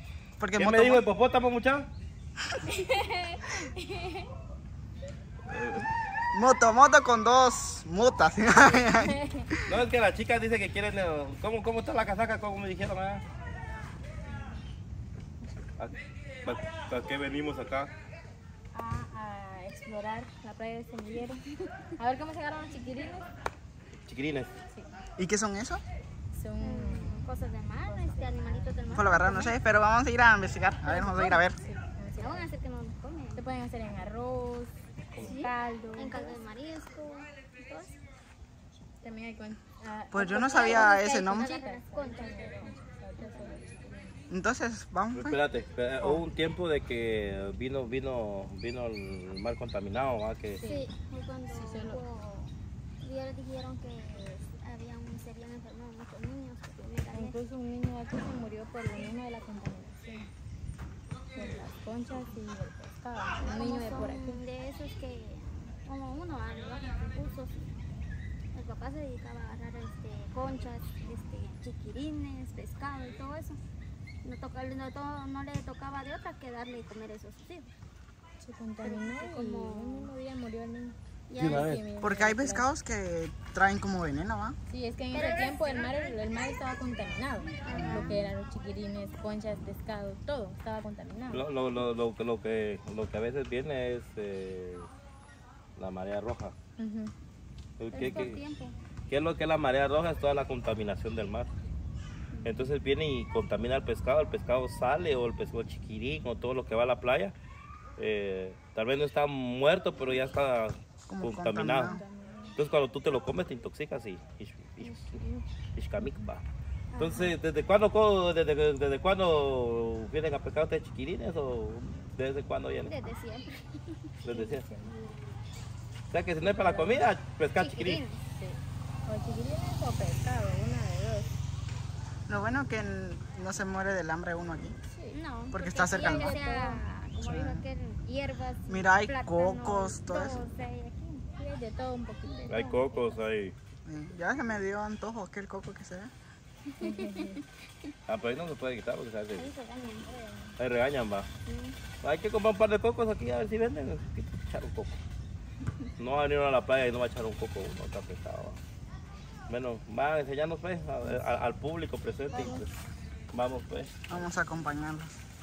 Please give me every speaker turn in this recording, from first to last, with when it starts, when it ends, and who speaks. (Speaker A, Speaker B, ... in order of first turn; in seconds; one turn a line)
Speaker A: 0.4-1.0
Speaker B: 0.6-1.9
Speaker C: 2.8-3.6
Speaker B: 5.5-5.9
Speaker A: 6.3-9.7
Speaker D: 8.7-9.5
Speaker B: 9.7-13.2
Speaker B: 15.8-17.9
Speaker D: 18.7-21.4
Speaker D: 22.0-23.3
Speaker B: 24.1-24.5
Speaker A: 25.2-25.8
Speaker D: 26.3-27.3
Speaker C: 26.6-29.6
Speaker D: 27.9-28.7
Speaker A: 28.9-31.6
Speaker D: 30.8-32.5
Speaker C: 32.2-33.4
Speaker D: 33.4-36.4
Speaker C: 35.2-38.0
Speaker D: 39.0-44.1
Speaker A: 40.1-41.5
Speaker C: 40.5-43.6
Speaker A: 44.3-45.4
Speaker B: 45.1-50.6
Speaker D: 50.5-50.9
Speaker C: 50.6-57.4
Speaker D: 51.5-52.0
Speaker D: 57.1-60.3
Speaker D: 61.4-64.4
Speaker C: 63.4-67.8
Speaker C: 68.5-73.6
Speaker C: 74.2-77.7
Speaker D: 78.4-82.7
Speaker C: 78.8-80.1
Speaker C: 81.3-81.8
Speaker B: 81.4-81.8
Speaker A: 82.0-84.6
Speaker D: 84.7-91.4
Speaker C: 85.1-86.2
Speaker C: 87.6-88.1
Speaker A: 87.7-88.3
Speaker B: 91.3-94.9
Speaker B: 95.8-96.5
Speaker D: 96.8-97.1
Speaker B: 97.8-98.4
Speaker C: 97.9-98.8
Speaker B: 99.1-101.5
Speaker C: 102.3-102.6
Speaker B: 102.4-107.3
Speaker B: 108.0-112.0
Speaker A: 111.1-112.0
Speaker D: 111.8-112.6
Speaker B: 112.5-115.2
Speaker C: 114.8-115.4
Speaker B: 115.8-116.4
Speaker D: 116.0-116.2
Speaker C: 116.9-117.3
Speaker B: 117.0-123.1
Speaker C: 122.8-124.5
Speaker B: 124.2-124.7
Speaker D: 124.4-124.9
Speaker B: 126.1-128.0
Speaker D: 126.4-127.0
Speaker C: 127.6-128.2
Speaker D: 128.3-131.3
Speaker A: 132.3-134.8
Speaker D: 134.9-135.2
Speaker C: 135.1-141.3
Speaker A: 135.5-136.4
Speaker D: 135.9-136.8
Speaker A: 137.2-137.6
Speaker A: 138.7-140.4
Speaker D: 141.3-143.2
Speaker B: 142.5-143.5
Speaker A: 143.8-146.1
Speaker D: 146.8-147.4
Speaker C: 146.8-147.3
Speaker B: 148.1-149.5
Speaker C: 149.3-150.1
Speaker D: 149.8-150.6
Speaker B: 150.6-151.3
Speaker C: 151.4-151.8
Speaker B: 152.0-155.0
Speaker B: 156.0-158.6
Speaker B: 159.5-162.7
Speaker C: 162.3-162.6
Speaker B: 163.3-164.2
Speaker A: 164.1-165.1